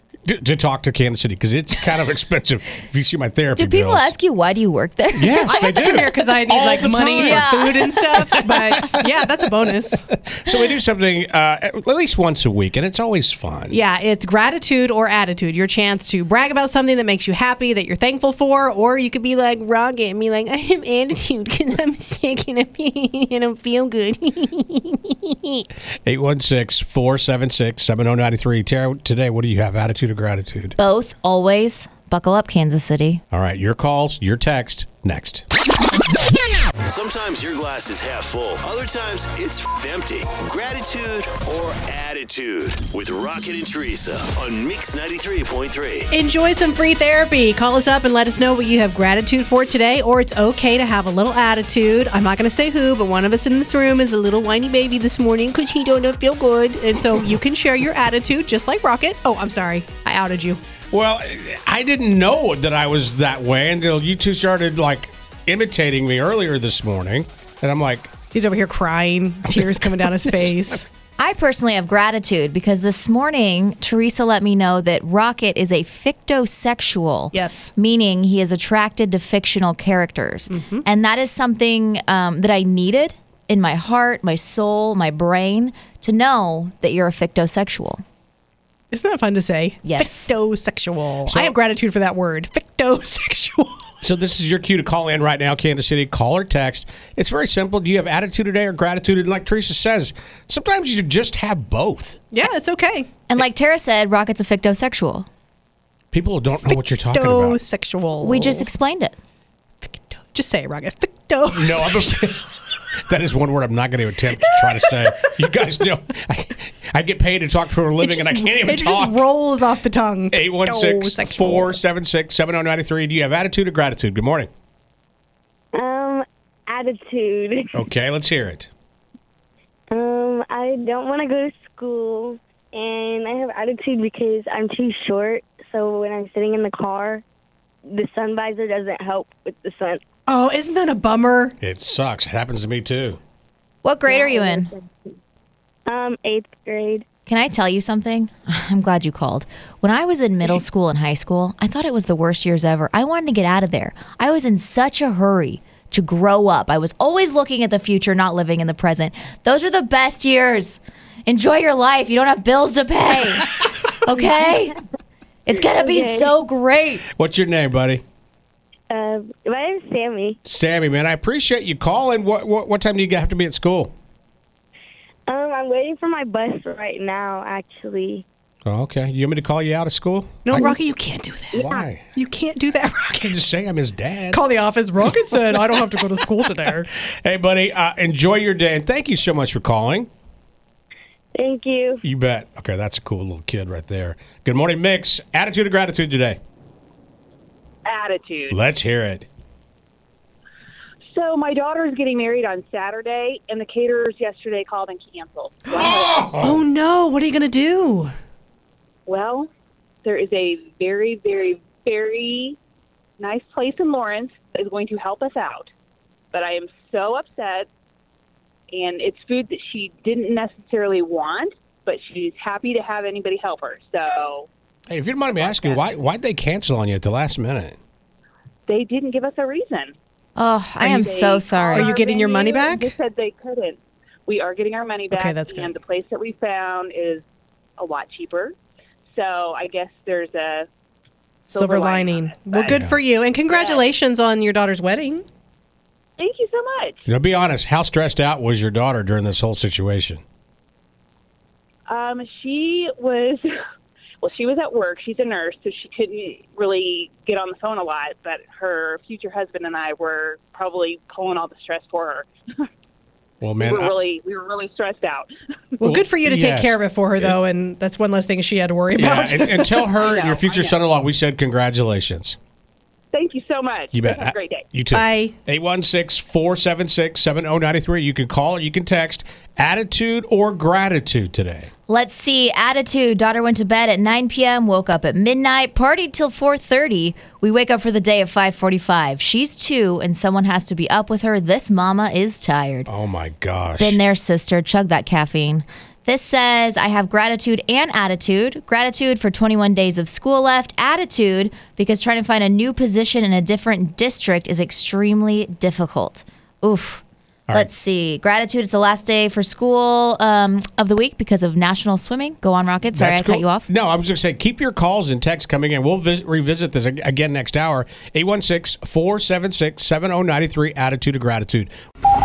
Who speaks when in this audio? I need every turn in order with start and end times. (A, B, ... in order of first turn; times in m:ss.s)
0:00.3-0:04.1 A
0:03.6-0:05.9 B
0:05.2-0:07.5 A
0:05.4-0:10.1 C
0:06.5-0:08.7 B
0:08.2-0:08.8 A
0:10.1-0:13.8 A
0:13.7-0:25.6 C
0:26.0-0:30.8 A
0:30.8-0:33.2 B
0:33.3-0:35.5 A
0:36.9-0:46.1 D
0:46.1-1:00.6 C
1:00.9-1:08.1 A
1:08.3-1:10.9 C
1:09.6-1:10.5 A
1:11.2-1:28.0 B
1:17.3-1:17.7 C
1:20.5-1:20.8 C
1:28.9-1:34.0 C
1:29.8-1:30.3 B
1:31.3-1:31.6 A
1:34.0-1:42.2 A
1:42.3-1:43.1 C
1:43.3-1:45.3 B
1:46.1-1:47.6 A
1:46.7-1:48.7 C
1:48.2-1:49.2 B
1:49.8-1:52.4 C
1:51.5-1:59.2 A
1:58.0-2:01.8 C
2:00.3-2:04.5 A
2:05.8-2:07.7 E
2:07.7-2:08.7 A
2:09.9-2:17.2 E
2:17.9-2:20.0 E
2:20.3-2:21.6 C
2:21.6-2:23.2 A
2:23.8-2:24.7 B
2:24.1-2:24.9 E
2:25.9-2:27.0 E
2:27.3-2:44.8 B
2:45.5-2:47.0 B
2:45.6-2:46.3 E
2:47.1-2:48.0 A
2:48.9-2:50.4 E
2:50.5-2:53.9 A
2:55.3-2:58.2 E
2:58.7-3:00.6 A
3:00.4-3:03.4 C
3:01.5-3:02.0 A
3:03.2-3:04.4 A
3:04.3-3:06.9 C
3:05.3-3:05.7 A
3:07.0-3:10.1 A
3:11.4-3:12.0 E
3:12.0-3:16.4 A
3:17.8-3:18.6 F
3:18.5-3:19.3 A
3:21.1-3:26.3 F
3:25.7-3:28.1 C
3:25.8-3:26.6 A
3:29.1-3:29.5 F
3:30.0-3:32.6 F
3:33.2-3:35.7 F
3:36.3-3:37.7 F
3:38.7-3:44.5 F
3:44.9-3:47.8 A
3:45.4-3:45.9 F
3:48.7-3:50.0 F
3:50.4-3:52.0 B
3:50.8-3:57.2 F
3:51.7-3:52.9 C
3:55.1-3:55.8 C
3:57.8-3:58.6 F
3:59.1-4:00.7 F
4:01.5-4:02.8 F
4:01.5-4:05.2 C
4:02.7-4:03.0 A
4:03.5-4:03.9 F
4:06.2-4:07.0 F
4:07.1-4:10.2 A
4:11.9-4:13.5 F
4:14.2-4:22.7 F
4:23.4-4:23.9 A
4:23.6-4:25.3 F
4:25.8-4:29.9 C
4:25.8-4:27.4 A
4:29.0-4:32.4 A
4:30.0-4:30.8 F
4:33.1-4:34.6 F
4:33.9-4:41.7 A
4:34.9-4:35.4 C
4:41.9-4:52.9 B
4:52.9-4:54.0 A
4:53.8-5:13.7 B
5:12.9-5:21.7 A